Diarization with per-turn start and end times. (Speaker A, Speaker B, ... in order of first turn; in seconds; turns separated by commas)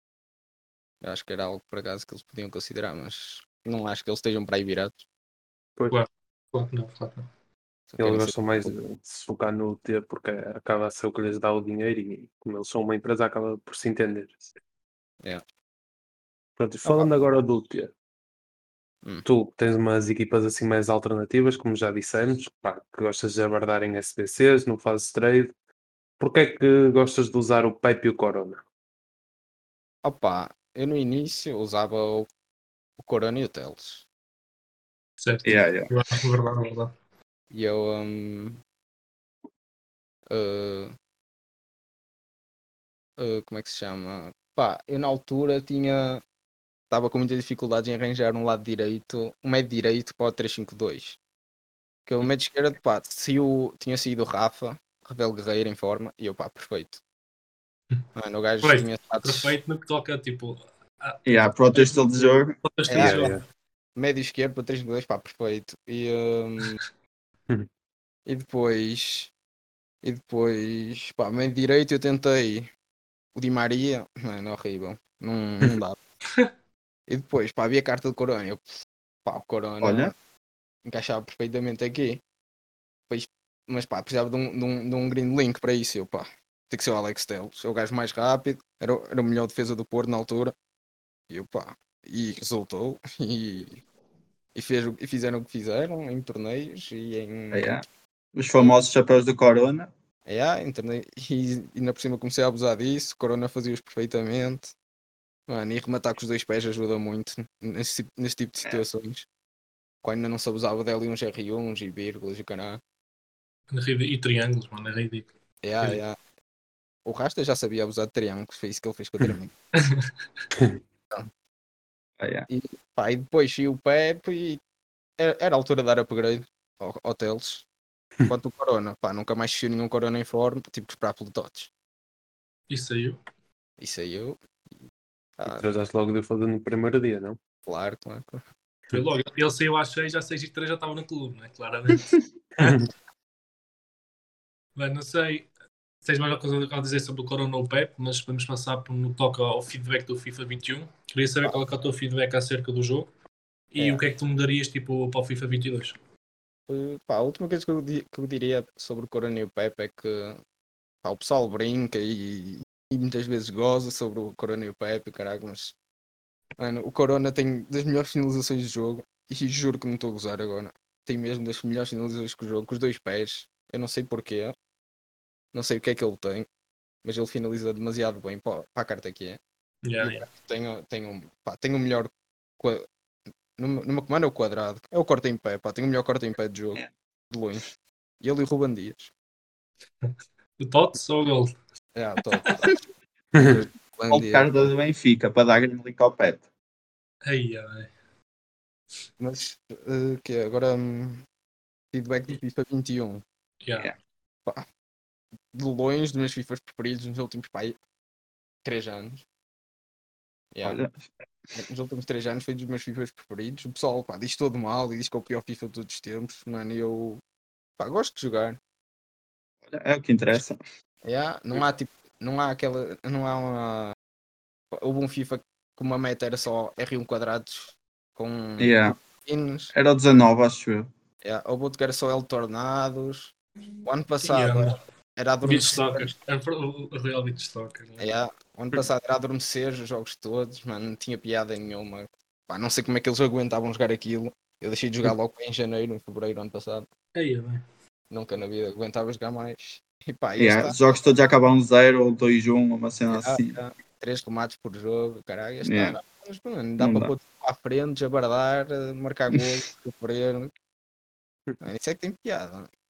Speaker A: 1.0-5.0, Speaker B: 5.9-7.3, Speaker A: 7.9-8.8, Speaker C: 8.0-14.4, Speaker C: 16.6-17.9, Speaker A: 16.8-17.1, Speaker C: 19.2-25.5, Speaker C: 26.2-28.6, Speaker A: 30.0-32.3, Speaker A: 33.0-34.0, Speaker B: 35.2-36.9, Speaker D: 35.5-35.9, Speaker A: 37.5-38.6, Speaker A: 40.3-40.9, Speaker A: 43.2-46.2, Speaker A: 46.9-51.2, Speaker A: 52.1-57.0, Speaker A: 58.1-59.6, Speaker B: 58.6-63.4, Speaker D: 61.3-62.6, Speaker A: 62.9-63.3, Speaker C: 63.0-63.4, Speaker A: 64.0-66.8, Speaker A: 68.3-69.3, Speaker A: 70.0-72.7, Speaker A: 73.3-76.0, Speaker A: 77.1-78.6, Speaker A: 79.2-80.1, Speaker D: 79.8-80.1, Speaker A: 80.8-82.2, Speaker A: 83.1-90.5, Speaker A: 91.3-93.8, Speaker A: 94.5-97.7, Speaker D: 97.5-99.9, Speaker A: 100.3-104.7, Speaker A: 105.5-109.3, Speaker A: 110.0-112.8, Speaker B: 113.7-115.3, Speaker A: 115.6-116.2, Speaker A: 117.0-119.5, Speaker B: 119.8-120.1, Speaker C: 120.6-120.8, Speaker D: 122.2-122.5, Speaker A: 122.5-124.6, Speaker A: 125.2-127.7, Speaker A: 128.3-131.7, Speaker B: 132.7-133.2, Speaker A: 133.8-134.4, Speaker A: 135.4-135.7, Speaker C: 135.5-137.4, Speaker A: 137.7-138.4, Speaker B: 138.9-142.1, Speaker C: 142.6-142.9, Speaker B: 144.8-145.5, Speaker B: 146.1-153.1, Speaker B: 153.7-156.0, Speaker A: 156.7-160.4, Speaker A: 161.0-165.8, Speaker A: 166.6-174.5, Speaker A: 175.5-176.5, Speaker A: 177.0-179.4, Speaker B: 179.8-180.3, Speaker A: 180.0-182.9, Speaker A: 183.6-187.7, Speaker A: 188.2-189.1, Speaker B: 190.0-191.5, Speaker A: 191.9-192.8, Speaker A: 193.3-194.7, Speaker D: 194.1-196.4, Speaker B: 197.3-197.9, Speaker A: 199.2-201.2, Speaker A: 201.9-203.2, Speaker B: 203.6-203.9, Speaker A: 205.5-207.8, Speaker A: 208.7-209.2, Speaker A: 210.5-210.8, Speaker D: 210.6-210.9, Speaker A: 211.6-217.2, Speaker A: 217.8-218.6, Speaker D: 219.7-220.6, Speaker A: 221.1-223.9, Speaker A: 224.7-229.7, Speaker D: 228.6-229.0, Speaker D: 229.7-230.9, Speaker A: 231.2-233.3, Speaker A: 233.8-236.1, Speaker B: 234.2-234.8, Speaker B: 235.4-238.1, Speaker A: 238.0-246.9, Speaker B: 247.2-247.6, Speaker A: 248.1-250.8, Speaker D: 250.4-253.6, Speaker A: 253.1-260.5, Speaker D: 255.6-256.0, Speaker D: 256.8-257.1, Speaker A: 261.6-262.7